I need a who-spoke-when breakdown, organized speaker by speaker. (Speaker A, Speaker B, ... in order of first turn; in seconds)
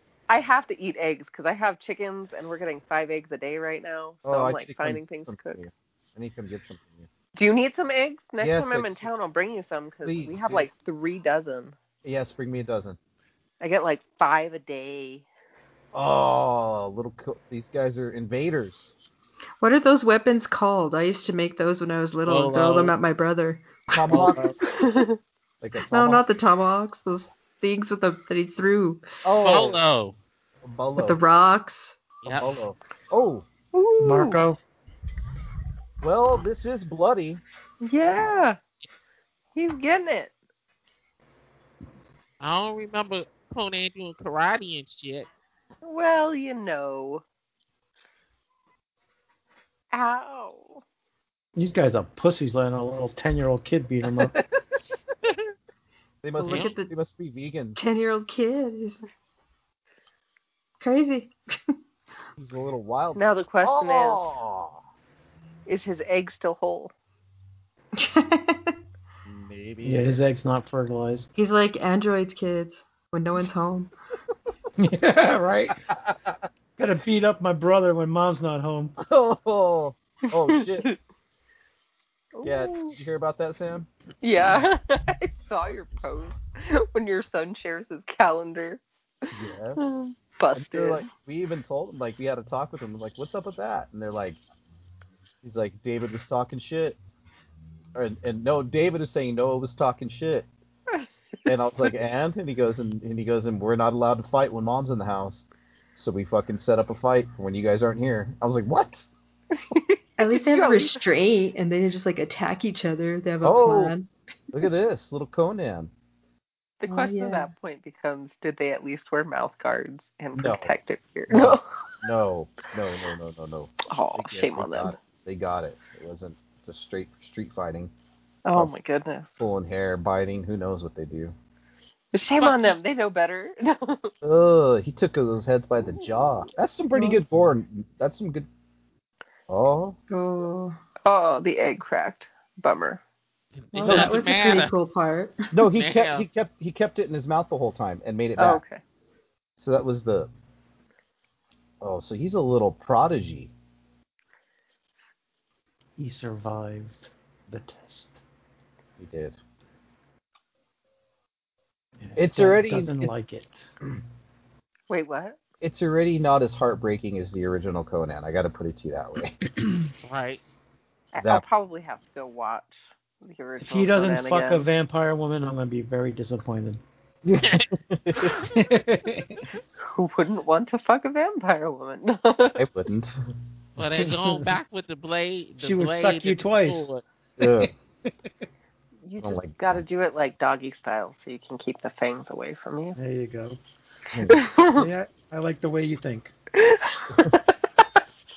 Speaker A: 0.3-5.6, 7.4-11.8, 13.6-15.3, 24.7-25.2, 33.7-34.4, 37.8-38.6, 39.5-40.4, 45.8-47.2, 49.9-50.8, 63.2-64.4, 65.7-66.9, 80.6-81.0, 82.3-83.0, 84.2-88.8, 89.8-91.1, 109.5-111.0, 116.8-121.7, 123.9-125.0, 128.4-129.4, 132.1-134.1, 141.1-143.0, 148.4-148.8, 164.9-165.4, 171.1-174.7, 179.8-182.6, 189.0-193.0, 194.3-194.9, 196.5-197.6
Speaker B: 4.2-7.1, 8.4-9.1, 10.1-10.7, 12.0-13.0, 15.9-18.9, 23.9-24.6, 25.6-26.3, 29.2-29.8, 30.6-31.2, 32.3-33.5, 36.0-37.4, 56.2-57.8, 62.4-64.8, 69.2-70.2, 76.0-76.4, 79.0-80.9, 82.4-83.9, 89.3-90.0, 90.5-94.4, 95.4-97.0, 98.0-100.5, 101.5-109.1, 113.4-114.0, 114.5-115.9, 120.3-120.7, 121.3-127.9, 129.4-131.3, 134.2-138.5, 139.5-140.0, 143.8-144.2, 145.5-148.6, 149.6-150.3, 151.8-153.5, 159.0-159.4, 162.2-163.1, 165.6-169.4, 177.2-178.4, 182.6-183.2, 187.4-187.7, 189.2-189.8, 194.1-194.4
Speaker C: 19.6-24.4, 25.9-29.0, 31.0-32.0, 56.4-56.9, 57.8-59.0, 60.8-61.7, 68.0-68.8, 71.4-73.9, 110.2-114.1, 116.9-117.5, 136.9-137.2, 140.1-140.8, 143.7-145.6
Speaker D: 22.3-22.9, 29.4-30.2, 32.2-32.5, 42.4-45.3, 56.5-56.7, 132.4-132.8, 143.6-144.7, 145.8-146.2, 170.0-170.4, 183.8-187.0
Speaker E: 34.0-34.6, 51.6-54.4, 69.8-71.3, 74.8-75.8, 76.8-79.0, 156.0-158.2, 162.0-163.7, 173.6-176.8, 178.3-179.5, 184.0-184.4, 185.6-186.9, 187.4-187.7, 193.0-193.6, 194.8-196.3